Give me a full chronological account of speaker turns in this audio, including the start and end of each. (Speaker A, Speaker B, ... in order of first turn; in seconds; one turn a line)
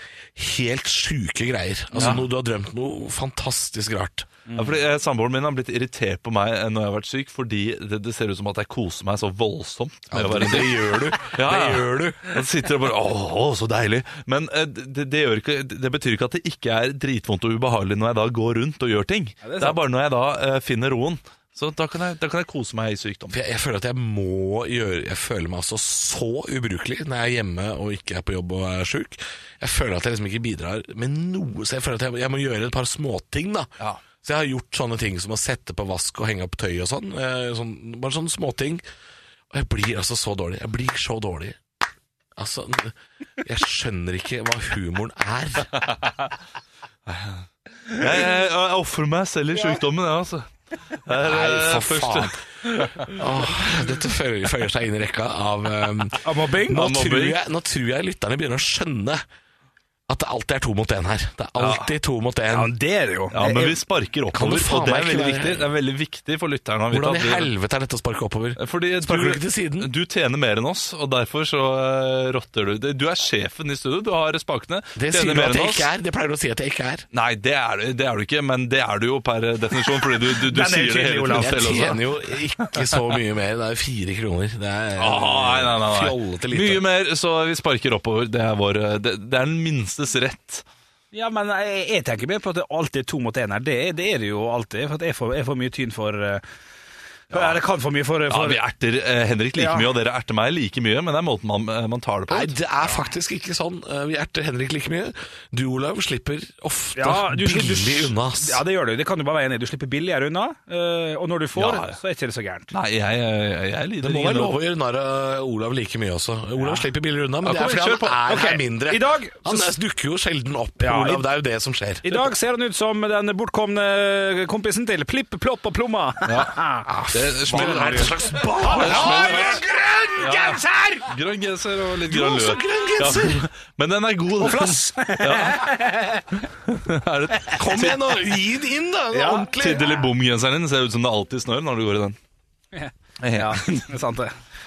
Speaker A: 0.3-4.3
Speaker B: 1.9-2.2
Speaker C: 2.0-2.2
Speaker B: 4.5-4.7
Speaker C: 4.6-23.4
Speaker A: 10.1-12.3
Speaker B: 19.4-19.8
Speaker A: 23.3-38.8
Speaker A: 39.5-41.6
Speaker A: 42.4-45.8
Speaker C: 47.1-53.2
Speaker A: 51.2-52.4
Speaker A: 53.0-59.2
Speaker B: 56.2-57.0
Speaker C: 56.7-57.4
Speaker A: 60.1-62.8
Speaker C: 61.6-61.9
Speaker B: 62.5-63.8
Speaker C: 63.3-67.5
Speaker A: 64.3-65.7
Speaker A: 66.9-69.9
Speaker C: 68.6-75.9
Speaker A: 75.0-77.0
Speaker C: 77.1-82.2
Speaker B: 80.2-81.8
Speaker A: 81.3-86.8
Speaker C: 85.0-90.6
Speaker B: 91.1-96.4
Speaker C: 97.3-97.6
Speaker B: 97.3-98.6
Speaker C: 98.3-102.6
Speaker B: 99.5-99.9
Speaker A: 102.3-108.6
Speaker B: 107.0-112.7
Speaker C: 111.5-112.0
Speaker C: 112.7-114.5
Speaker A: 114.0-122.2
Speaker B: 116.6-116.8
Speaker C: 117.5-118.1
Speaker B: 117.5-119.6
Speaker B: 120.8-121.2
Speaker B: 122.0-129.6
Speaker C: 126.2-129.6
Speaker A: 127.5-130.4
Speaker C: 130.2-135.8
Speaker B: 130.2-131.1
Speaker A: 132.1-133.5
Speaker B: 134.4-136.4
Speaker C: 136.6-138.0
Speaker A: 137.6-140.0
Speaker B: 139.1-139.5
Speaker C: 139.5-142.2
Speaker B: 142.7-144.4
Speaker C: 143.2-143.8